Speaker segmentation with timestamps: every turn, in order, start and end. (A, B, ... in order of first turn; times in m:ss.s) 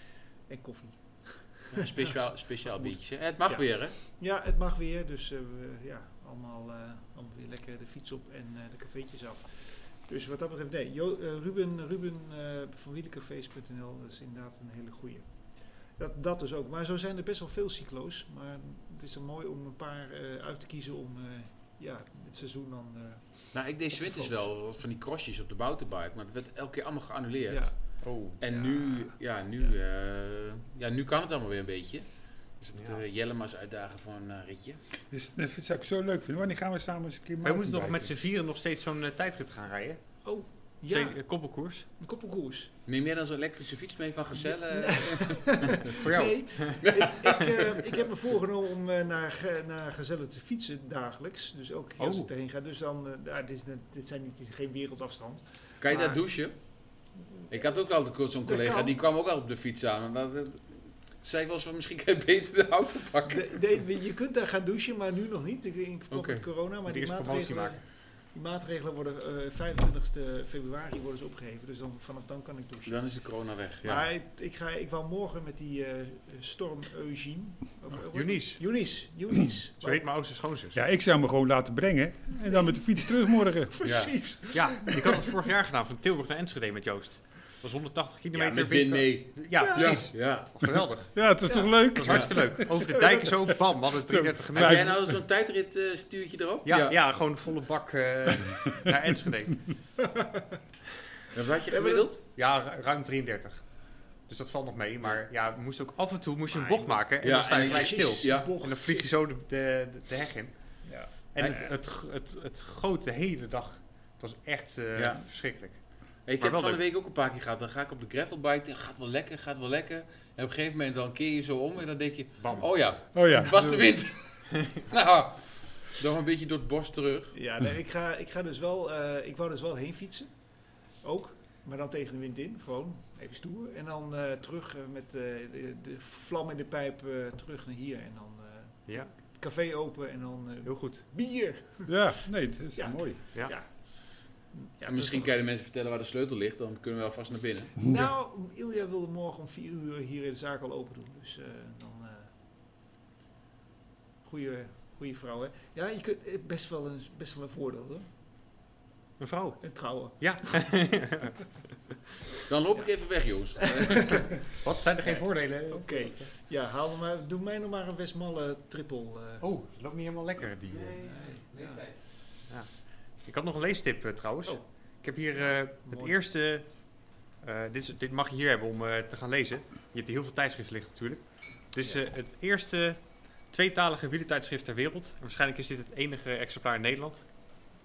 0:00.5-0:24.4 A
0:01.7-0:04.0 B
0:23.5-0:34.8 B
0:28.0-0:28.9 C
0:32.8-0:33.0 C
0:35.1-0:38.1 D
0:37.4-0:40.0 C
0:40.2-0:41.2 A
0:40.9-0:41.9 C
0:42.0-0:42.7 A
0:42.9-0:45.8 B
0:44.4-0:56.2 A
0:45.7-0:47.3 C
0:46.8-0:47.4 B
0:52.0-0:52.3 C
0:55.8-0:56.5 B
0:57.5-1:03.6 B
0:58.4-0:58.9 A
1:03.3-1:13.0 A
1:06.1-1:06.4 B
1:06.9-1:07.8 C
1:12.9-1:14.1 B
1:13.8-1:20.0 A
1:18.1-1:18.6 C
1:19.8-1:20.8 C
1:20.7-1:24.2 D
1:22.4-1:25.3 A
1:24.5-1:31.1 C
1:28.3-1:30.5 B
1:29.6-1:30.1 A
1:31.1-1:33.0 D
1:31.4-1:33.6 A
1:31.9-1:35.0 C
1:34.1-1:35.2 D
1:34.5-1:37.0 B
1:36.6-1:39.7 C
1:40.0-1:40.6 A
1:41.3-1:42.2 B
1:41.5-1:42.1 A
1:42.4-1:43.7 C
1:44.3-1:50.5 C
1:46.5-1:49.1 A
1:47.2-1:48.5 B
1:50.8-1:51.7 A
1:51.3-1:55.8 C
1:55.0-1:55.2 B
1:56.3-2:07.4 B
1:56.4-1:56.8 C
2:02.4-2:02.8 C
2:03.2-2:03.9 D
2:04.5-2:04.8 C
2:07.3-2:10.3 A
2:11.0-2:22.1 A
2:20.6-2:21.0 C
2:21.9-2:23.2 D
2:22.8-2:23.7 A
2:24.5-2:25.3 A
2:24.9-2:27.9 B
2:27.8-2:32.3 A
2:34.2-2:38.1 A
2:39.2-2:41.4 C
2:39.6-2:40.7 A
2:42.5-2:44.2 B
2:43.6-2:49.4 A
2:44.6-2:46.3 C
2:49.4-2:51.0 C
2:50.7-2:52.0 B
2:51.0-2:51.9 A
2:53.2-2:56.7 C
2:55.4-2:56.2 A
2:57.4-3:07.4 C